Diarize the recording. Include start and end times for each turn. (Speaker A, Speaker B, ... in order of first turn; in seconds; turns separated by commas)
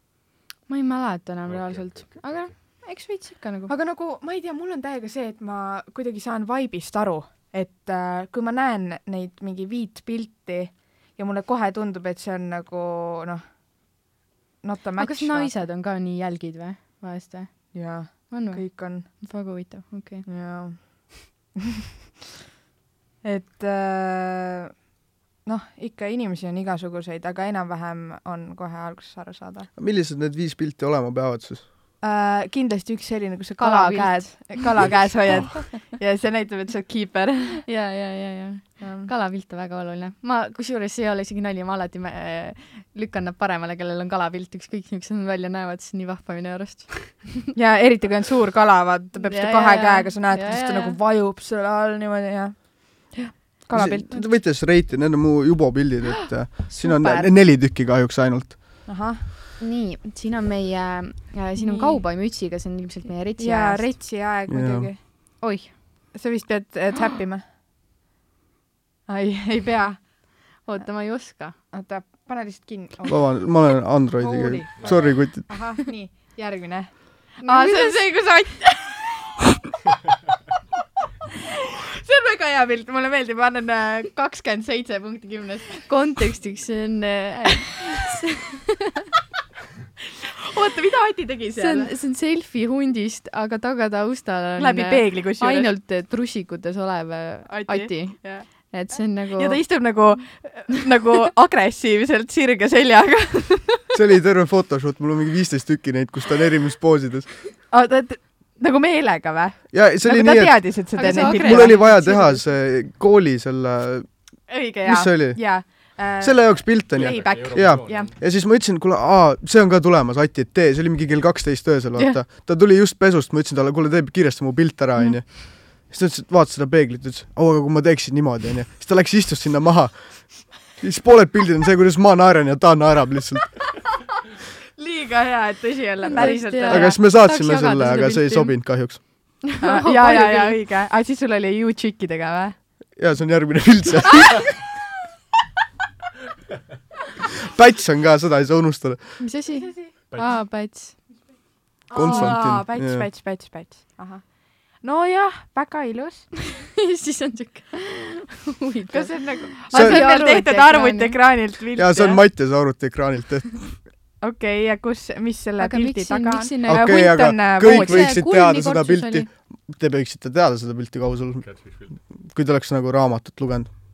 Speaker A: 0.7-3.7, Speaker B: 1.4-2.5, Speaker C: 3.7-13.4, Speaker C: 14.6-15.5, Speaker A: 15.0-20.2, Speaker C: 17.7-19.1, Speaker C: 20.2-21.4, Speaker C: 23.2-24.8, Speaker C: 25.4-29.7, Speaker D: 29.8-31.6, Speaker C: 32.0-37.6, Speaker A: 33.6-34.9, Speaker A: 37.6-47.5, Speaker C: 38.8-39.1, Speaker C: 47.5-54.3, Speaker A: 49.2-51.0, Speaker D: 53.7-58.8, Speaker A: 56.7-57.3, Speaker C: 58.9-59.2, Speaker A: 59.6-64.0, Speaker C: 61.6-62.0, Speaker C: 63.4-65.0, Speaker D: 64.5-64.9, Speaker A: 65.4-65.7, Speaker C: 66.1-67.4, Speaker C: 69.1-70.1, Speaker A: 70.0-71.5, Speaker C: 71.7-79.2, Speaker D: 73.0-75.5, Speaker B: 74.8-75.1, Speaker A: 77.4-78.1, Speaker C: 82.0-85.9, Speaker A: 85.9-89.0, Speaker C: 90.4-91.9, Speaker A: 91.6-99.7, Speaker C: 94.6-95.7, Speaker C: 97.5-103.8, Speaker D: 103.9-107.3, Speaker C: 107.7-112.4, Speaker D: 109.7-114.1, Speaker A: 110.9-112.1, Speaker C: 114.5-118.1, Speaker D: 114.8-133.6, Speaker B: 116.9-118.1, Speaker C: 134.8-137.0, Speaker A: 136.1-140.6, Speaker D: 136.2-139.0, Speaker C: 139.6-142.6, Speaker D: 142.9-144.6, Speaker D: 147.4-149.2, Speaker A: 149.2-151.0, Speaker C: 149.6-149.9, Speaker B: 150.1-150.4, Speaker C: 151.9-156.3, Speaker D: 151.9-153.1, Speaker A: 156.5-161.2, Speaker C: 158.9-162.2, Speaker D: 159.7-160.1, Speaker D: 161.7-163.8, Speaker C: 164.2-168.2, Speaker A: 165.6-169.3, Speaker D: 166.7-171.4, Speaker B: 171.4-172.0, Speaker D: 172.1-173.7